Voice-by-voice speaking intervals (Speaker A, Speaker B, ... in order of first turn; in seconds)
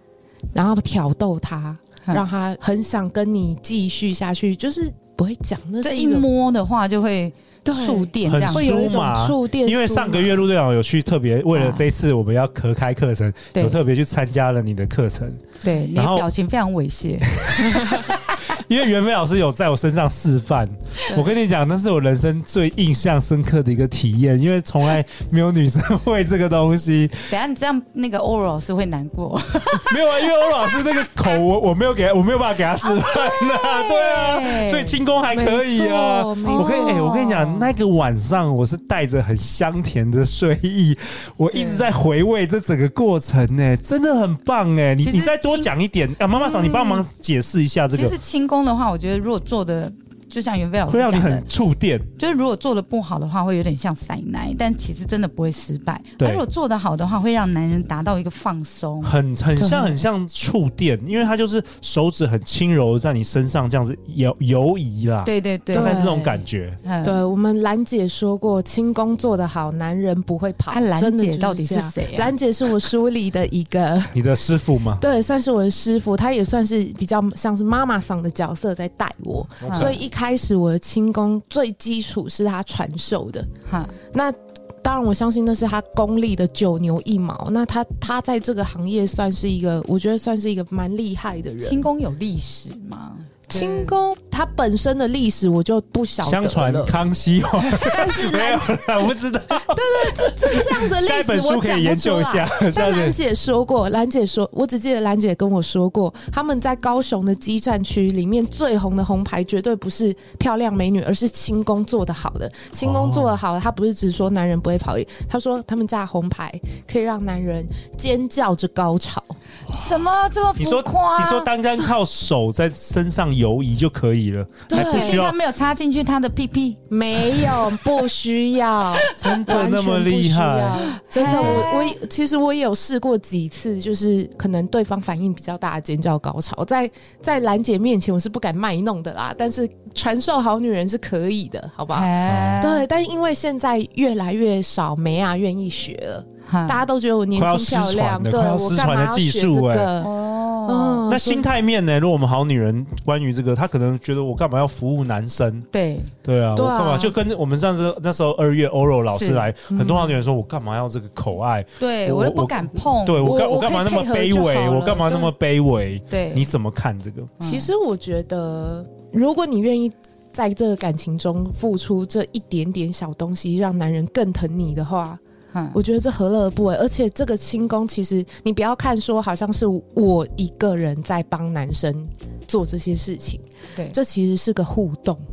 Speaker A: 0.5-6.3, 7.7-10.5, 35.3-37.0, 46.7-46.9, 59.6-60.0, 65.7-66.4, 67.0-74.4, 75.0-83.5, 84.1-91.8, 93.5-97.0, 97.6-119.4, 124.7-125.2, 126.9-150.1, 150.7-151.5, 156.6-157.1, 159.7-160.2, 163.2-165.3, 167.4-175.2, 175.7-185.2
Speaker B: 5.8-8.8, 11.5-11.8, 15.6-18.2, 27.3-31.1, 32.8-35.0, 36.4-37.7, 41.5-41.9, 45.0-45.7, 47.9-51.4, 52.2-59.1, 65.2-66.3, 66.8-67.2, 70.7-72.3, 79.7-79.9, 83.7-83.9, 91.6-94.0, 119.7-121.5, 124.7-127.8, 128.9-129.3, 130.8-131.9, 141.9-142.9, 146.5-146.8, 150.0-151.1, 155.7-156.1, 159.1-159.5, 161.8-163.4, 166.1-166.5, 167.4-167.7, 175.5-175.8
Speaker C: 8.2-15.4, 15.9-16.2, 17.3-27.3, 29.8-48.1, 50.9-52.1, 59.0-66.8, 74.1-75.0, 79.6-80.0, 96.2-103.2, 112.8-113.3, 119.7-120.0, 120.6-125.3, 129.1-131.7, 142.3-142.6, 147.3-149.9, 151.1-155.7, 156.2-167.3